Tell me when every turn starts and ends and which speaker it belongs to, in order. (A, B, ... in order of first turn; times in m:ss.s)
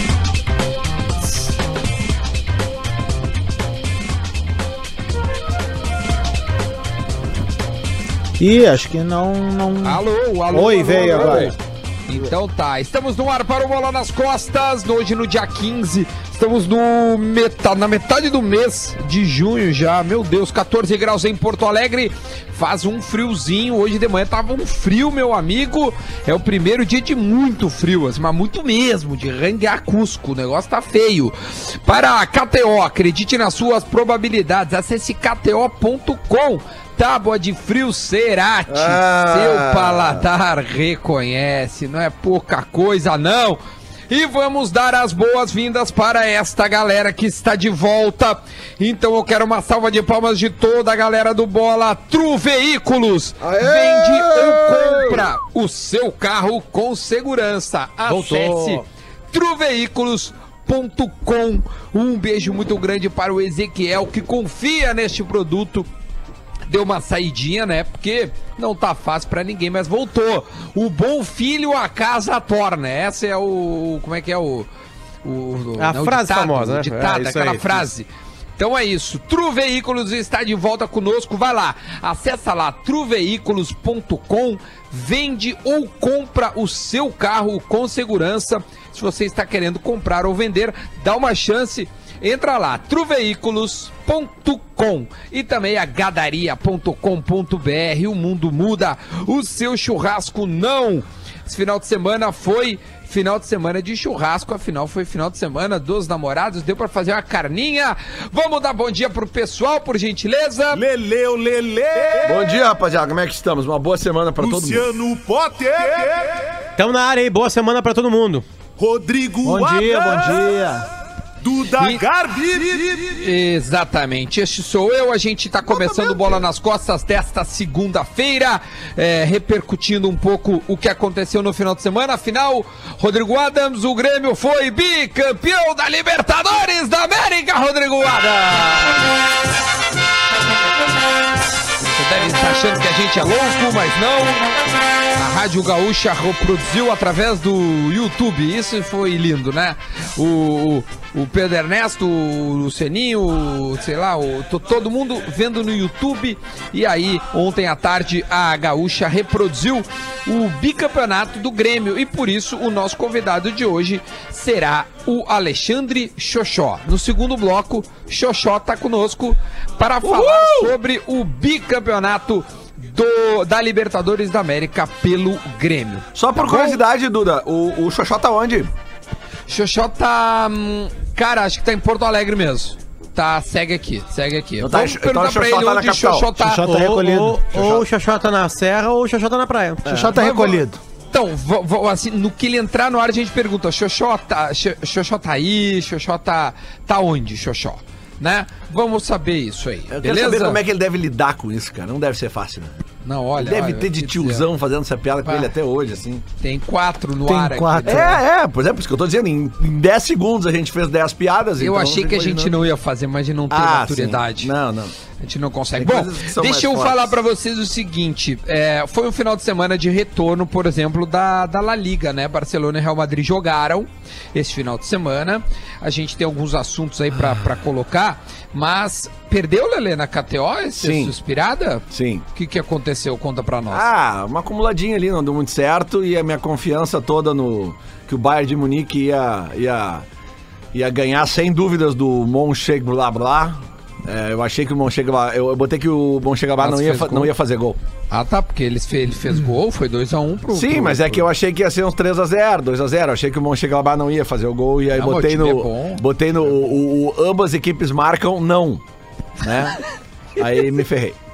0:08.4-0:11.6 A
0:09.8-1:05.9 B
0:38.7-0:40.2 C
0:53.4-0:55.2 C
0:58.1-0:58.8 D
0:58.3-0:58.7 C
1:06.7-1:14.7 B
1:15.2-1:18.1 B
1:15.8-1:17.8 D
1:18.6-1:50.8 B
1:50.7-1:52.7 E
1:52.2-1:54.9 C
1:54.4-1:56.5 E
1:56.8-1:58.4 D
1:58.8-2:00.8 E
1:59.4-2:00.9 A
2:01.4-2:03.1 E
2:01.8-2:02.0 B
2:03.1-2:19.0 B
2:05.7-2:06.3 E
2:21.9-2:24.4 B
2:25.1-2:56.8 B
2:50.0-2:50.7 C
2:56.1-2:58.7 C
2:59.5-3:06.6 B
3:04.6-3:06.3 C
3:06.4-3:07.4 A
3:06.6-3:10.2 D
3:07.5-3:07.8 C
3:09.8-3:10.8 A
3:10.1-3:10.6 B
3:11.1-3:20.6 B
3:19.9-3:22.8 C
3:23.0-3:24.4 B
3:23.4-3:26.2 C
3:26.4-3:28.2 B
3:27.2-3:28.2 A
3:27.8-3:32.5 C
3:31.6-3:34.5 B
3:33.5-3:34.9 C
3:35.2-3:53.9 B
3:35.8-3:37.2 C
3:50.8-3:51.1 C
3:51.9-3:52.2 C
3:53.7-4:00.0 C
4:00.7-4:07.8 C
4:06.6-4:07.3 B
4:08.1-4:11.2 B
4:10.5-4:18.8 C
4:15.0-4:16.0 B
4:19.4-4:19.8 C
4:20.4-4:21.2 C